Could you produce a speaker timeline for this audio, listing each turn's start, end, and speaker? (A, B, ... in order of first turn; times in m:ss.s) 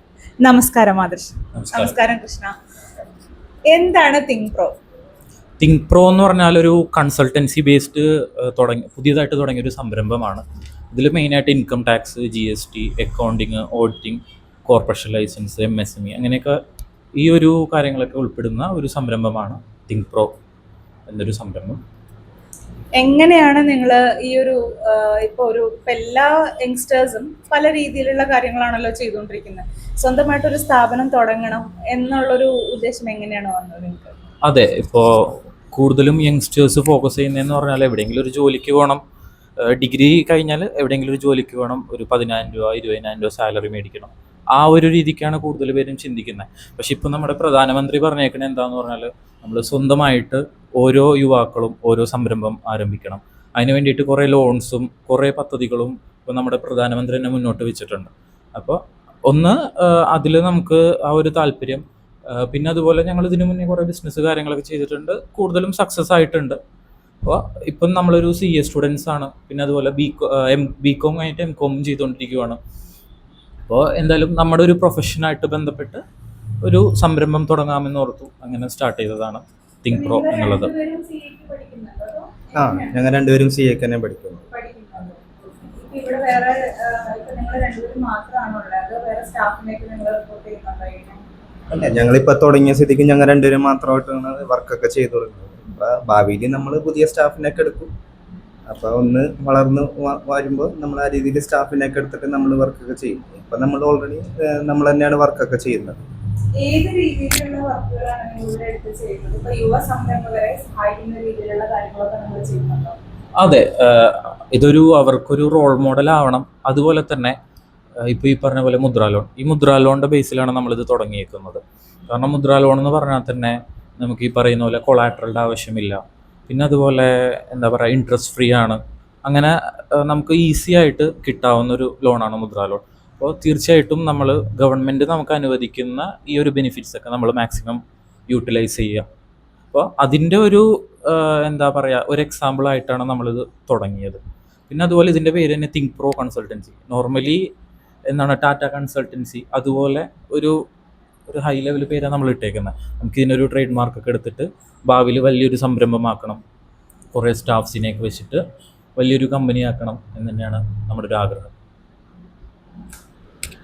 0:00.4-0:02.5 A
0:01.6-0:02.0 B
0:03.7-0:04.7 A
0:05.6-0:16.6 B
0:17.2-0:20.3 B
0:21.1-0:21.8 B
0:23.0-0:34.1 A
0:34.4-0:39.0 B
0:39.6-1:06.6 B
1:07.2-1:12.6 B
1:13.7-1:16.0 B
1:16.6-1:20.7 B
1:19.9-1:23.0 A
1:22.6-1:24.4 C
1:24.5-1:31.2 A
1:31.7-1:37.9 C
1:38.7-1:46.0 C
1:46.6-1:53.0 A
1:53.4-1:57.4 B
1:58.1-2:19.1 B
2:19.7-2:27.5 B
2:28.1-2:30.6 B
2:31.3-2:36.4 B
2:37.1-2:38.4 B
2:39.0-2:41.5 B